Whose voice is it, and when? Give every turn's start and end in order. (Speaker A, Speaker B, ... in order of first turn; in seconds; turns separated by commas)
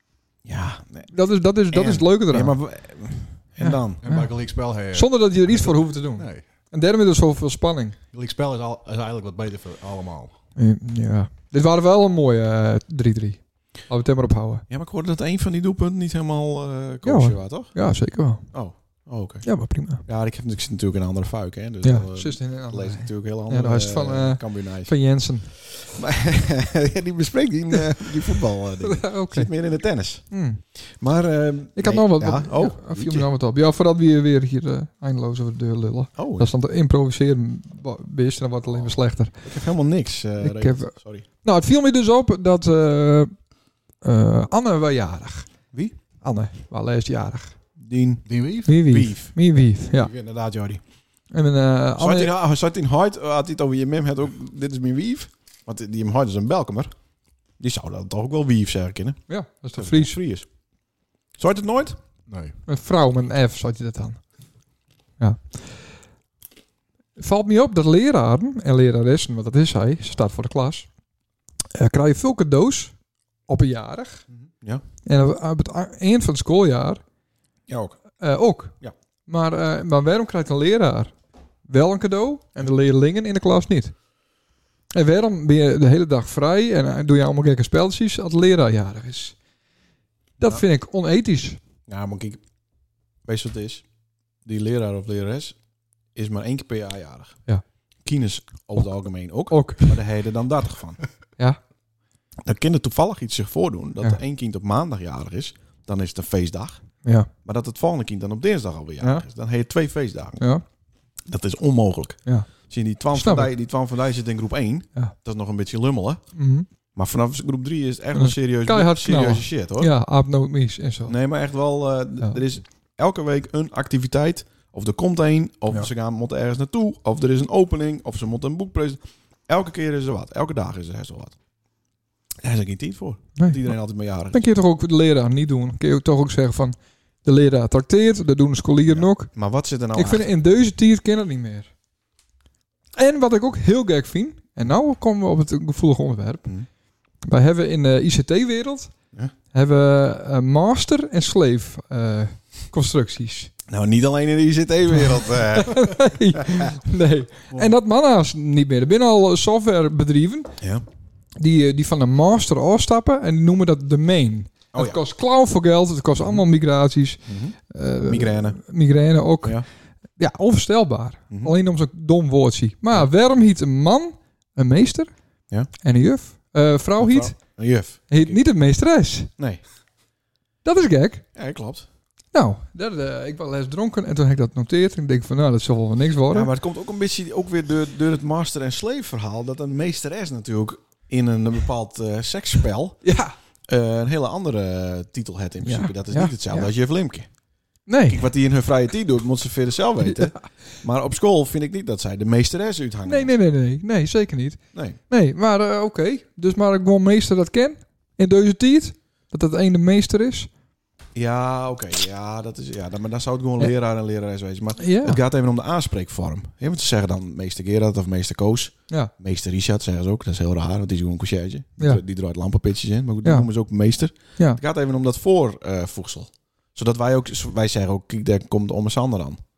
Speaker A: 0.5-1.1, Speaker B: 1.1-2.6, Speaker A: 1.7-4.0, Speaker B: 3.6-8.0, Speaker C: 4.0-6.5, Speaker C: 8.1-10.4, Speaker B: 10.6-14.7, Speaker A: 14.7-17.8, Speaker B: 17.0-18.5, Speaker A: 18.5-33.3, Speaker B: 19.4-20.0, Speaker B: 21.8-25.6, Speaker B: 28.8-29.5, Speaker B: 30.3-30.6, Speaker B: 31.8-39.4, Speaker A: 36.2-36.5, Speaker A: 39.4-41.2, Speaker B: 40.4-43.3, Speaker B: 44.0-45.5, Speaker B: 46.2-47.5, Speaker A: 47.8-50.8, Speaker C: 48.3-48.7, Speaker B: 48.7-50.1, Speaker B: 51.3-52.3, Speaker A: 52.0-56.9, Speaker A: 57.6-59.2, Speaker B: 59.3-60.2, Speaker A: 59.7-60.5, Speaker A: 61.4-62.0, Speaker C: 62.3-62.6, Speaker B: 62.7-64.2, Speaker B: 65.2-65.9, Speaker B: 67.2-70.9, Speaker B: 71.7-72.9, Speaker B: 73.5-74.2, Speaker A: 74.3-74.8, Speaker B: 75.0-77.0, Speaker A: 77.7-78.0, Speaker B: 78.2-78.8, Speaker B: 79.3-81.1, Speaker B: 81.7-83.9, Speaker B: 84.9-89.4, Speaker B: 90.4-91.6, Speaker A: 91.9-92.4, Speaker A: 93.2-93.8, Speaker A: 94.5-95.6, Speaker A: 96.2-97.4, Speaker A: 98.0-101.0, Speaker B: 99.5-100.0, Speaker A: 102.4-106.8, Speaker B: 107.0-107.3, Speaker A: 107.4-110.5, Speaker B: 109.0-109.3, Speaker A: 111.3-116.2, Speaker B: 113.1-113.5, Speaker B: 116.4-116.7, Speaker A: 117.0-119.9, Speaker B: 118.2-121.2, Speaker A: 121.1-131.4, Speaker A: 132.4-134.4, Speaker B: 133.4-133.7, Speaker B: 134.3-139.3, Speaker A: 138.9-140.3, Speaker B: 139.9-141.7, Speaker B: 143.0-146.5, Speaker B: 147.2-148.9, Speaker B: 149.5-153.5, Speaker A: 153.7-156.7, Speaker B: 155.6-160.5, Speaker A: 160.6-160.8, Speaker B: 161.4-169.6, Speaker A: 164.7-165.0, Speaker A: 167.2-168.6, Speaker B: 170.2-175.1, Speaker A: 171.3-171.6, Speaker B: 175.8-177.4, Speaker A: 177.0-178.4, Speaker B: 178.1-179.3, Speaker B: 180.6-181.2, Speaker A: 181.3-181.9, Speaker B: 182.3-186.5, Speaker A: 186.3-193.1, Speaker B: 193.0-193.3, Speaker A: 193.7-197.3, Speaker B: 195.6-196.7, Speaker B: 197.9-198.3, Speaker A: 198.1-203.3, Speaker B: 200.1-200.4, Speaker B: 203.1-210.5, Speaker A: 204.7-205.0, Speaker A: 211.2-229.4, Speaker B: 214.8-215.2